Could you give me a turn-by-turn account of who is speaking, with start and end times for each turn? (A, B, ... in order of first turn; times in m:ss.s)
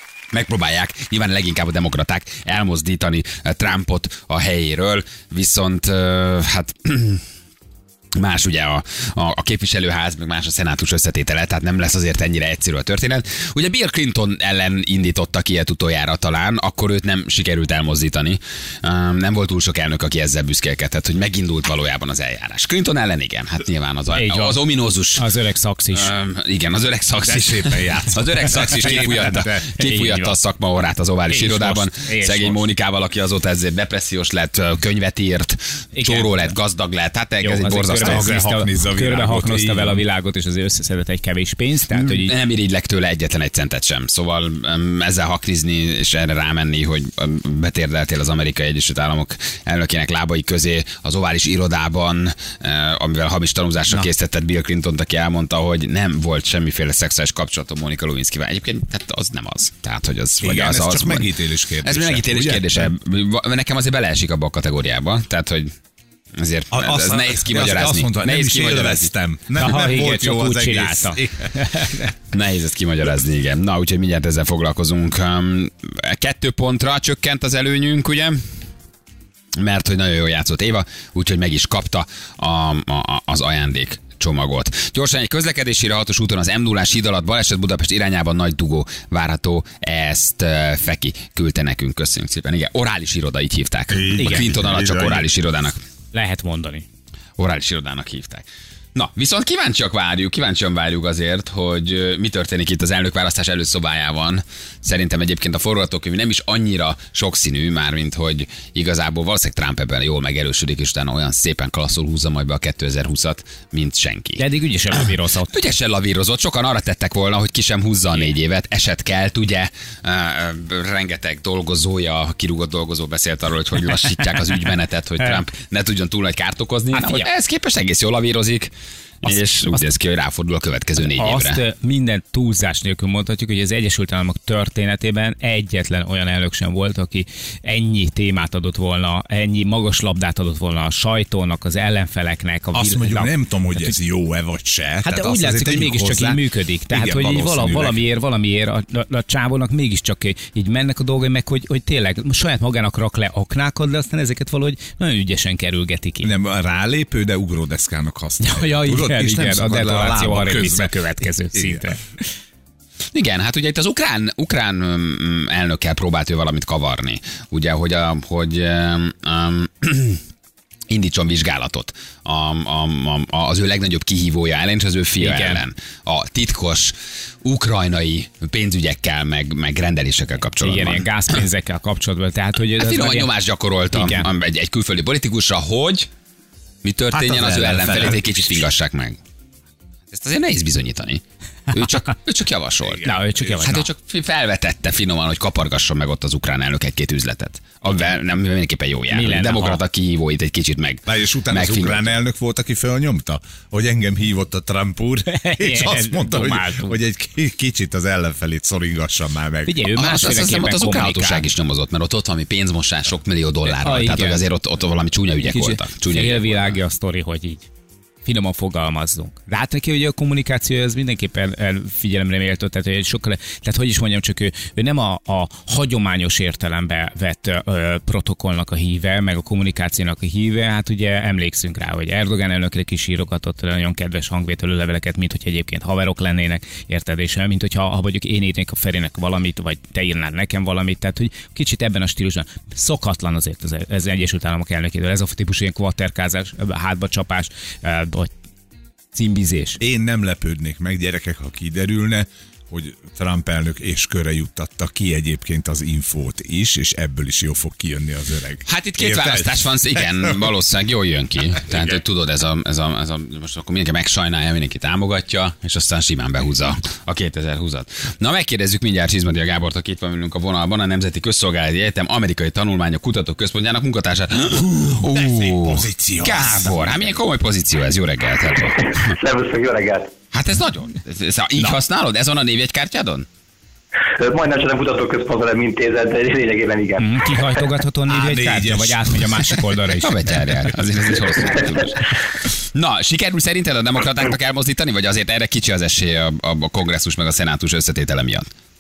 0:00.3-0:07.2 A
0:08.2-0:25.3 A
0:24.1-0:24.6 B
0:25.1-0:26.1 B
0:25.9-0:38.4 A
0:27.2-0:29.7 C
0:29.8-0:30.4 B
0:31.3-0:31.8 C
0:31.4-0:32.6 B
0:35.9-0:36.5 B
0:37.4-0:42.3 B
0:38.0-0:40.0 C
0:41.9-1:01.3 A
1:00.4-1:02.9 C
1:01.8-1:05.7 A
1:06.3-1:09.1 A
1:06.7-1:11.5 C
1:09.6-1:12.1 B
1:12.3-1:18.4 A
1:19.6-1:35.8 A
1:33.9-1:35.2 C
1:36.1-1:36.8 B
1:37.4-1:54.4 A
1:54.4-1:55.5 B
1:55.5-2:11.6 A
2:06.9-2:07.3 B
2:09.2-2:09.8 B
2:11.0-2:23.9 B
2:22.7-2:28.0 C
2:25.0-2:36.3 B
2:36.2-2:41.0 C
2:38.4-2:42.2 B
2:41.5-2:41.8 C
2:43.1-2:50.2 A
2:50.9-3:01.1 A
2:55.2-2:55.6 B
3:00.6-3:03.3 B
3:02.8-3:06.1 A
3:03.9-3:04.3 B
3:06.8-3:09.2 A
3:07.1-3:08.3 C
3:07.8-3:08.2 B
3:10.1-3:13.0 A
3:12.8-3:13.8 C
3:13.0-3:13.9 B
3:13.6-3:22.2 A
3:19.1-3:19.8 B
3:21.0-3:29.8 C
3:25.3-3:27.0 B
3:29.6-3:31.5 B
3:29.9-3:36.7 A
3:33.6-3:34.4 B
3:35.4-3:37.7 B
3:38.2-4:08.3 B
4:09.1-4:09.8 B
4:09.8-4:20.5 C
4:18.6-4:39.1 A
4:35.0-4:37.2 C
4:38.6-4:40.1 D
4:40.3-4:43.3 A
4:44.2-4:47.2 D
4:47.0-4:50.4 B
4:48.1-4:49.6 C
4:50.0-4:58.5 A